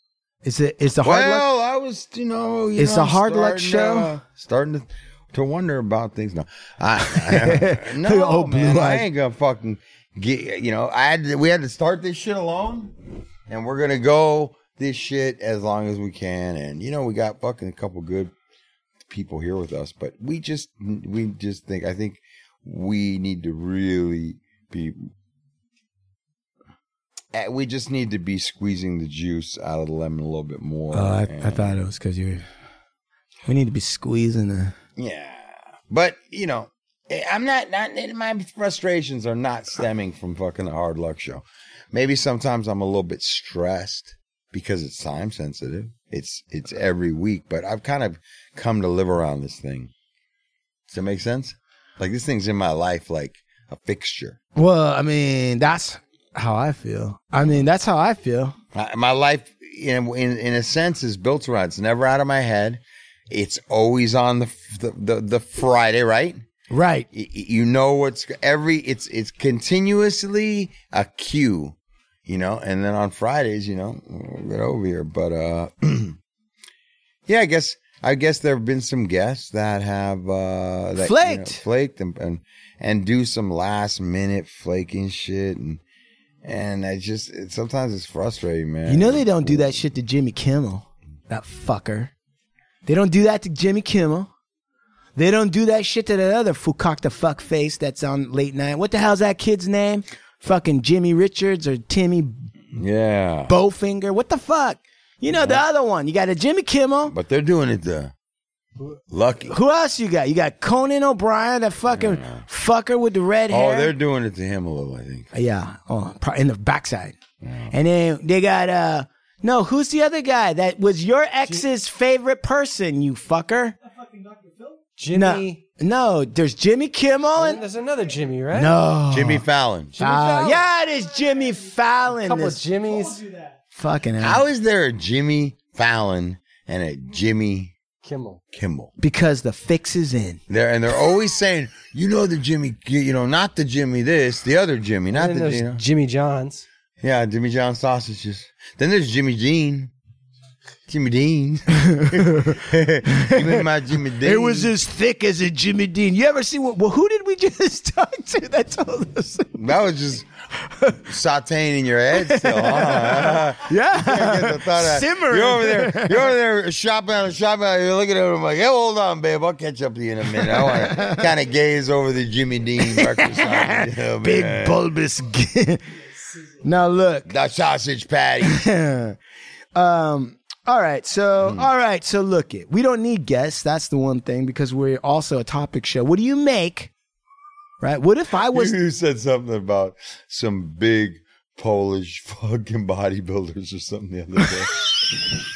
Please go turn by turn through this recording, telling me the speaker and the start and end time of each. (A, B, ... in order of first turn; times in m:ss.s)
0:00.4-0:01.5 A
0:01.0-0:12.9 B
0:02.8-0:04.2 A
0:07.1-0:09.1 A
0:13.5-0:18.3 B
0:19.1-0:25.1 B
0:27.3-0:31.8 B
0:30.9-0:32.4 A
0:33.4-0:34.7 A
0:35.0-0:49.9 B
0:50.9-0:54.4 B
0:54.6-0:58.6 A
0:58.7-1:06.4 B
1:06.7-1:07.1 A
1:07.1-1:11.7 B
1:12.2-1:16.2 B
1:17.3-1:25.8 B
1:21.0-1:21.6 A
1:26.4-1:29.8 B
1:28.8-1:32.1 A
1:32.8-1:34.3 A
1:35.2-1:42.5 A
1:42.7-1:43.5 B
1:43.5-1:47.1 A
1:45.3-1:45.6 B
1:47.1-1:48.1 B
1:49.1-1:49.6 B
1:49.5-1:53.9 A
1:51.9-1:52.4 B
1:53.5-1:55.3 B
1:55.3-1:57.2 A
1:57.4-1:57.7 B
1:57.7-2:03.7 A
2:05.0-2:05.6 C
2:05.1-2:07.6 A
2:07.3-2:08.8 C
2:08.5-2:09.4 A
2:09.1-2:10.0 B
2:10.0-2:10.7 C
2:10.0-2:12.6 A
2:12.2-2:13.4 C
2:13.7-2:14.4 A
2:14.2-2:17.7 B
2:18.0-2:18.4 C
2:18.5-2:18.9 B
2:19.0-2:20.4 A
2:20.5-2:25.8 B
2:25.1-2:26.6 C
2:27.0-2:29.9 B
2:30.9-2:34.7 B
2:31.9-2:33.6 A
2:34.2-2:39.6 A
2:39.5-2:40.3 B
2:41.1-2:54.8 B
2:42.2-2:46.3 A
2:50.8-2:51.2 A
2:52.9-2:55.8 A
2:56.6-2:57.3 A
2:57.3-2:58.6 B
2:58.4-2:59.2 A
2:59.7-3:06.9 A
3:01.4-3:01.7 B
3:07.8-3:08.8 A
3:08.5-3:14.7 B